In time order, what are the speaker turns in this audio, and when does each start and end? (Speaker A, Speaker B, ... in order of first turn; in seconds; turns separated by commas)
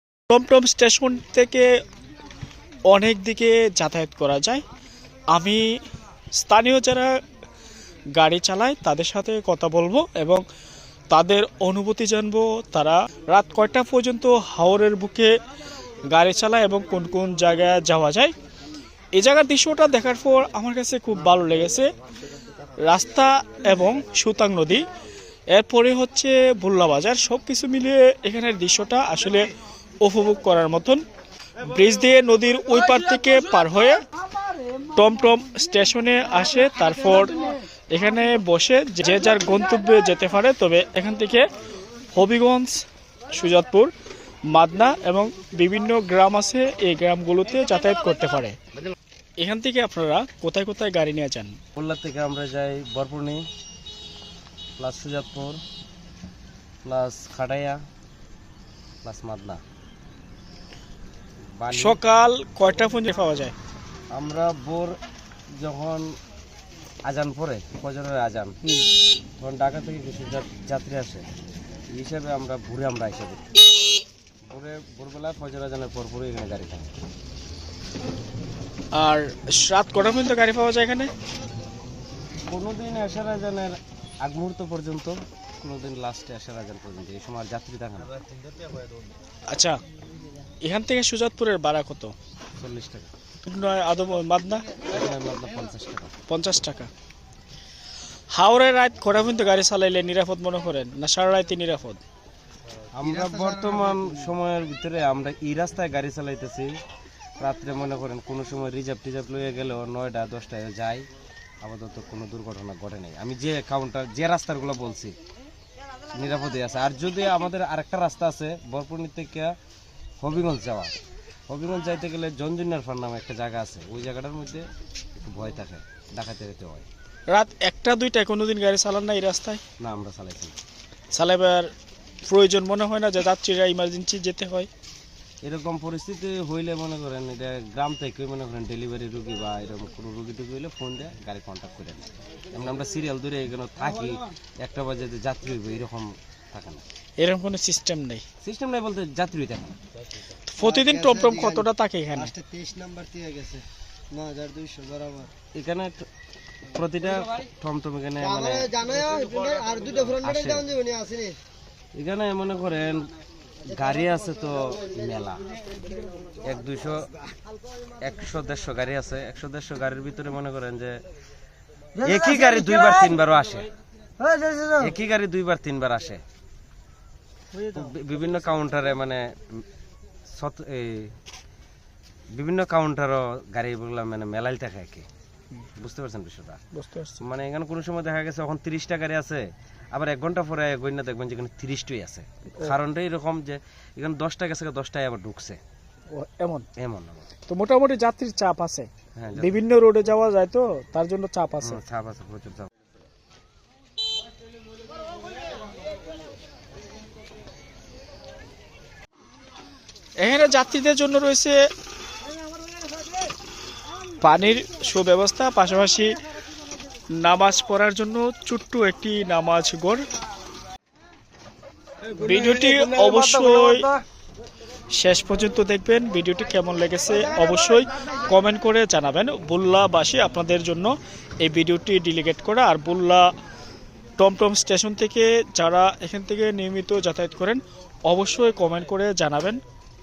Speaker A: 0.3-1.7, Speaker A: 2.9-4.6, Speaker A: 5.3-5.7, Speaker A: 6.4-7.1, Speaker A: 8.2-10.4, Speaker A: 11.1-15.3, Speaker A: 16.1-18.3, Speaker A: 19.1-21.9, Speaker A: 22.9-24.8, Speaker A: 25.5-29.4, Speaker A: 30.0-31.0, Speaker A: 31.6-34.0, Speaker A: 35.0-37.3, Speaker A: 37.9-41.5, Speaker A: 42.1-43.9, Speaker A: 44.5-48.6, Speaker A: 49.4-51.6, Speaker B: 51.8-53.4, Speaker B: 54.8-55.6, Speaker B: 56.9-57.8, Speaker B: 59.0-59.6, Speaker B: 61.5-62.0, Speaker A: 61.7-63.5, Speaker B: 64.1-64.9, Speaker B: 65.6-66.1, Speaker B: 67.1-68.6, Speaker B: 69.4-71.3, Speaker B: 71.9-73.5, Speaker B: 74.5-76.9, Speaker A: 79.0-81.1, Speaker B: 82.5-88.2, Speaker A: 89.5-89.8, Speaker A: 90.6-92.1, Speaker B: 92.6-93.1, Speaker A: 93.4-94.7, Speaker B: 94.8-96.1, Speaker A: 96.3-96.9, Speaker A: 98.3-102.0, Speaker B: 103.0-106.7, Speaker C: 103.0-104.0, Speaker B: 107.4-111.1, Speaker B: 111.6-115.2, Speaker B: 116.1-119.5, Speaker B: 120.2-121.0, Speaker B: 121.5-124.7, Speaker B: 125.2-126.9, Speaker A: 127.3-129.6, Speaker B: 129.8-130.6, Speaker A: 131.1-131.7, Speaker A: 132.2-134.7, Speaker B: 135.4-146.8, Speaker A: 147.2-148.2, Speaker B: 148.4-149.8, Speaker A: 150.5-152.3, Speaker C: 150.6-155.3, Speaker B: 155.6-156.1, Speaker B: 156.7-158.9, Speaker C: 158.2-161.4, Speaker B: 160.0-160.7, Speaker B: 161.9-163.1, Speaker B: 163.7-165.4, Speaker B: 166.4-167.1, Speaker B: 168.0-171.0, Speaker C: 172.0-172.9, Speaker B: 172.0-173.7, Speaker C: 174.2-174.8, Speaker B: 174.7-176.2, Speaker C: 177.5-177.9, Speaker B: 177.7-179.6, Speaker B: 180.3-181.1, Speaker B: 182.3-185.1, Speaker B: 185.8-186.6, Speaker A: 186.7-187.2, Speaker B: 187.2-195.6, Speaker A: 196.1-196.7, Speaker B: 196.8-197.3, Speaker A: 197.5-201.8, Speaker B: 199.2-199.6, Speaker B: 201.6-202.7, Speaker A: 210.2-211.6, Speaker A: 214.2-216.1, Speaker A: 217.2-220.0, Speaker A: 222.2-223.9, Speaker A: 224.9-233.3, Speaker A: 234.2-239.6